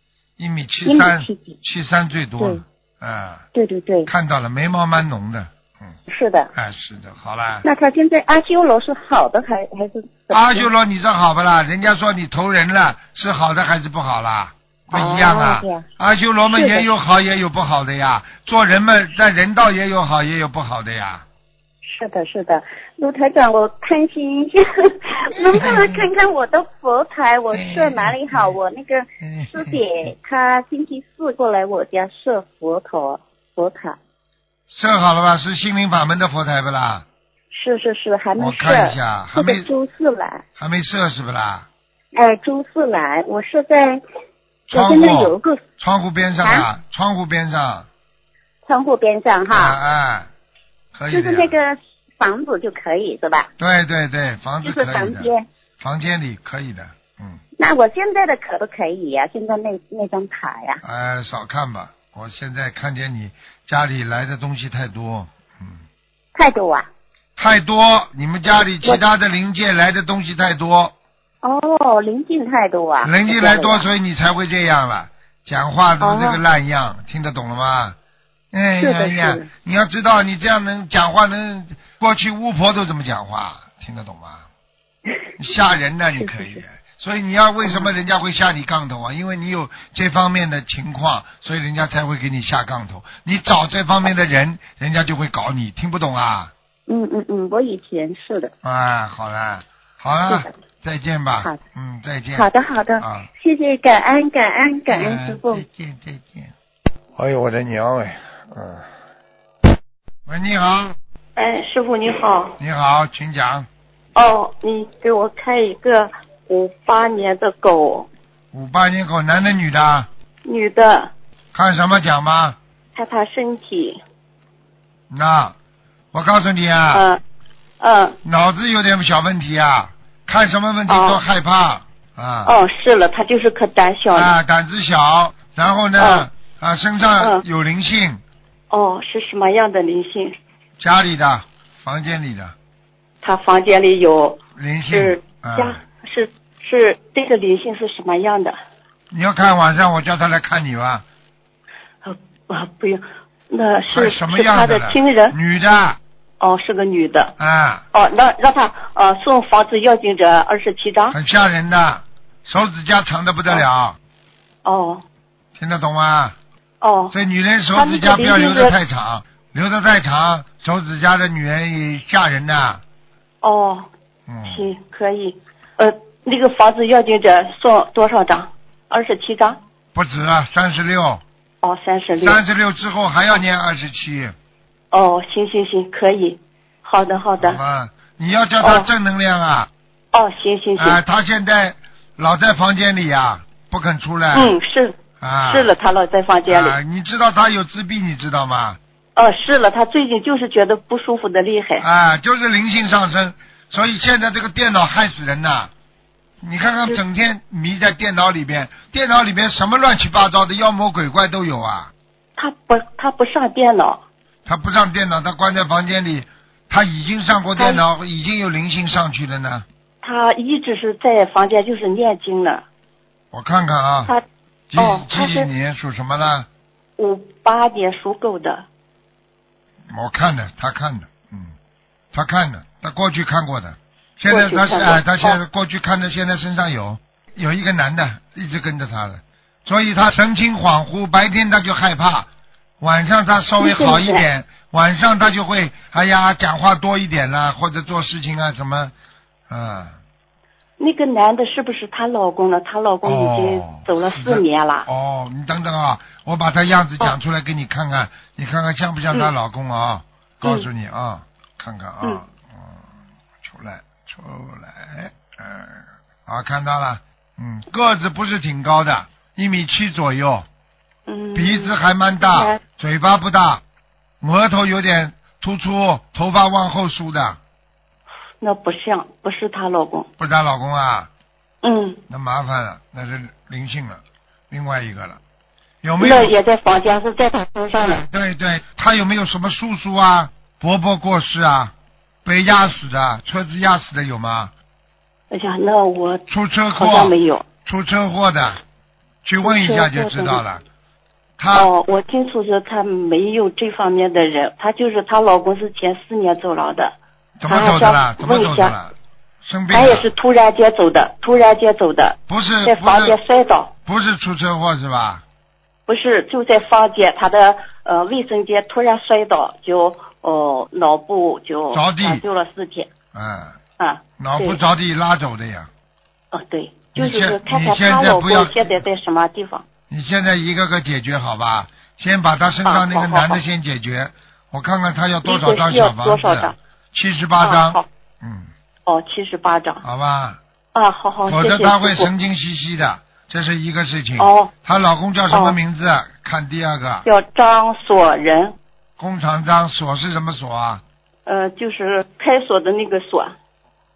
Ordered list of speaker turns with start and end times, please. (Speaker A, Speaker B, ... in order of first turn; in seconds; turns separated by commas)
Speaker A: 0.4-3.4, Speaker B: 0.8-1.6, Speaker B: 3.5-4.1, Speaker A: 4.1-6.0, Speaker B: 6.1-6.5, Speaker A: 6.5-7.6, Speaker B: 7.6-10.7, Speaker A: 10.3-21.2, Speaker B: 14.9-15.8, Speaker B: 16.5-16.9, Speaker B: 21.8-34.0, Speaker A: 25.3-26.1, Speaker A: 27.5-28.5, Speaker A: 29.2-30.1, Speaker A: 34.7-37.0, Speaker B: 37.5-40.4, Speaker A: 38.4-39.7, Speaker A: 40.6-41.7, Speaker B: 42.1-44.0, Speaker B: 44.7-45.6, Speaker A: 44.7-47.9, Speaker B: 46.4-46.7, Speaker B: 48.6-49.8, Speaker A: 49.5-50.3, Speaker A: 50.9-51.5, Speaker B: 51.1-53.5, Speaker A: 53.6-57.4, Speaker B: 54.6-55.5, Speaker B: 57.6-60.8, Speaker A: 60.8-65.8, Speaker B: 66.3-66.9, Speaker A: 67.3-70.9, Speaker B: 71.4-73.8, Speaker A: 73.0-78.0, Speaker B: 76.0-76.3, Speaker A: 78.5-84.5, Speaker B: 78.8-79.5, Speaker A: 85.4-96.5, Speaker B: 86.2-86.6, Speaker B: 96.9-98.5, Speaker A: 98.6-103.3, Speaker B: 102.3-105.6, Speaker A: 104.9-106.5, Speaker A: 107.1-108.9, Speaker A: 110.2-111.0, Speaker C: 111.3-112.5, Speaker A: 112.6-113.7, Speaker C: 114.1-118.1, Speaker A: 118.5-120.1, Speaker C: 120.4-121.1, Speaker A: 121.5-122.6, Speaker C: 122.9-124.0, Speaker A: 125.1-125.5, Speaker A: 126.1-127.0, Speaker C: 126.9-127.2, Speaker C: 127.8-128.2, Speaker A: 128.2-132.5, Speaker C: 130.9-131.2, Speaker C: 132.4-134.3, Speaker A: 134.1-138.2, Speaker C: 136.0-136.3, Speaker C: 138.7-140.3, Speaker A: 140.8-142.5, Speaker C: 143.2-148.6, Speaker A: 144.6-145.8, Speaker A: 149.1-151.0, Speaker C: 152.0-155.3, Speaker A: 153.9-156.0, Speaker C: 156.4-157.3, Speaker A: 157.4-157.8, Speaker C: 157.9-161.2, Speaker A: 161.1-164.0, Speaker C: 164.6-165.0, Speaker A: 165.6-166.3, Speaker C: 166.8-167.1, Speaker A: 167.1-172.8, Speaker C: 167.7-168.8, Speaker C: 173.4-173.9, Speaker A: 174.3-174.7, Speaker C: 174.4-179.6, Speaker A: 179.9-181.2, Speaker C: 181.6-182.4, Speaker A: 182.2-184.3, Speaker C: 184.9-187.6, Speaker A: 187.4-189.7, Speaker C: 188.6-188.9, Speaker C: 190.1-191.0, Speaker A: 190.8-194.6, Speaker C: 194.3-196.8, Speaker A: 195.2-195.7, Speaker A: 196.5-198.8, Speaker C: 199.2-201.8, Speaker A: 201.8-205.7, Speaker A: 206.4-211.9, Speaker C: 212.4-214.0, Speaker A: 214.4-219.7, Speaker C: 217.6-217.8, Speaker C: 220.0-222.6, Speaker A: 223.3-224.1, Speaker A: 224.7-226.5, Speaker C: 224.8-225.5, Speaker C: 227.0-228.7, Speaker A: 229.9-231.5, Speaker A: 232.1-242.3, Speaker C: 234.3-235.4, Speaker A: 242.8-248.9, Speaker C: 243.6-244.2, Speaker A: 249.5-250.0, Speaker C: 250.8-254.9, Speaker A: 253.0-262.9, Speaker C: 260.4-260.7, Speaker A: 263.4-270.4, Speaker C: 271.1-271.7, Speaker A: 271.3-273.6, Speaker C: 272.3-272.6, Speaker A: 274.2-277.4, Speaker C: 278.4-280.1, Speaker A: 280.2-281.1, Speaker C: 281.6-282.0, Speaker A: 282.1-285.2, Speaker A: 285.8-286.3, Speaker C: 286.0-288.0, Speaker A: 288.1-291.7, Speaker A: 292.2-294.5, Speaker C: 295.3-296.2, Speaker A: 296.3-298.6, Speaker C: 296.7-297.4, Speaker A: 299.2-300.6, Speaker C: 299.4-300.4, Speaker A: 301.4-301.7, Speaker C: 301.5-306.9, Speaker A: 307.4-310.1, Speaker C: 307.4-308.7, Speaker C: 309.7-313.7, Speaker A: 312.3-313.2, Speaker A: 313.8-315.2, Speaker C: 315.9-322.9, Speaker A: 321.7-322.2, Speaker A: 323.1-323.6, Speaker C: 323.8-324.6, Speaker A: 324.2-325.7, Speaker C: 326.3-329.6, Speaker A: 326.9-328.8, Speaker A: 329.9-338.5, Speaker C: 332.6-333.4, Speaker C: 335.2-336.5, Speaker C: 337.4-337.8, Speaker C: 338.9-339.8, Speaker A: 339.8-340.4, Speaker C: 340.7-342.1, Speaker A: 341.2-347.0, Speaker C: 344.2-344.5, Speaker C: 345.3-345.6, Speaker C: 347.0-348.6, Speaker A: 349.0-350.8, Speaker C: 351.2-353.4